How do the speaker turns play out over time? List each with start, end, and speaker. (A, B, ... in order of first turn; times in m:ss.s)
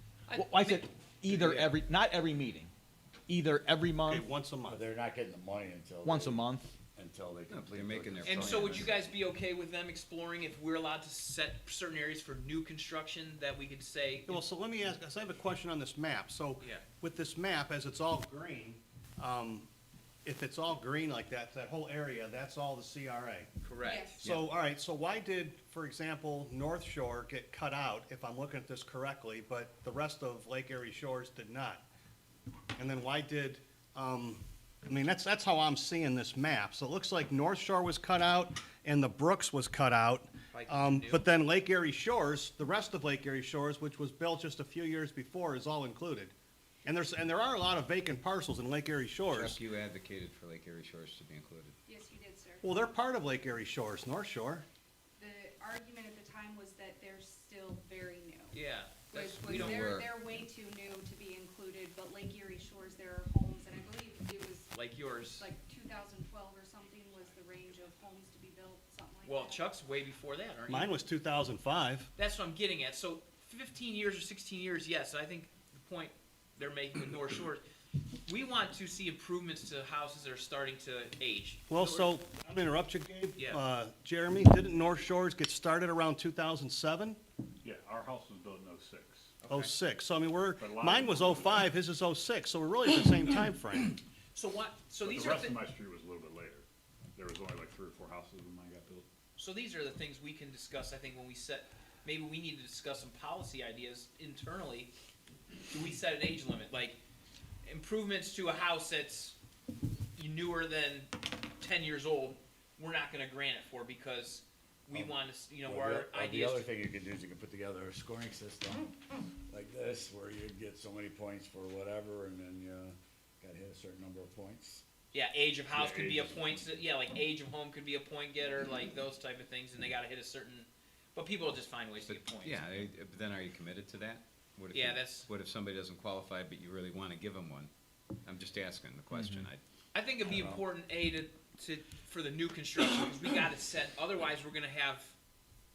0:00.3-0:00.9 A
0:00.3-0:02.7 B
0:01.3-0:01.8 C
0:03.3-0:04.3 B
0:04.0-0:04.8 D
0:04.7-0:06.4 E
0:06.0-0:06.7 B
0:07.0-0:08.9 E
0:07.5-0:08.9 C
0:08.2-0:14.4 A
0:14.3-0:19.7 D
0:20.2-0:23.5 D
0:23.6-0:24.1 A
0:23.8-0:24.3 F
0:24.2-0:31.8 D
0:32.8-0:46.3 D
0:40.5-0:41.3 A
0:46.8-0:49.6 D
0:49.3-0:51.8 C
0:51.9-0:52.6 F
0:52.6-0:54.7 D
0:55.2-1:04.8 F
0:58.5-0:59.8 A
0:59.3-1:00.5 C
1:04.7-1:05.5 A
1:05.4-1:09.7 F
1:09.2-1:10.9 A
1:10.7-1:12.1 D
1:12.2-1:17.6 A
1:18.3-1:22.0 A
1:21.7-1:27.2 D
1:27.6-1:29.3 G
1:29.4-1:29.7 A
1:29.5-1:34.0 D
1:30.6-1:31.7 G
1:34.3-1:35.6 A
1:35.0-1:36.6 G
1:37.2-1:39.1 G
1:39.4-1:44.9 A
1:45.7-1:47.0 A
1:47.7-1:49.4 A
1:50.2-1:56.7 A
1:55.6-2:04.8 E
2:05.1-2:12.9 A
2:05.7-2:06.9 G
2:12.1-2:17.7 C
2:14.7-2:15.3 A
2:18.2-2:19.6 C
2:19.1-2:19.5 B
2:19.9-2:25.1 A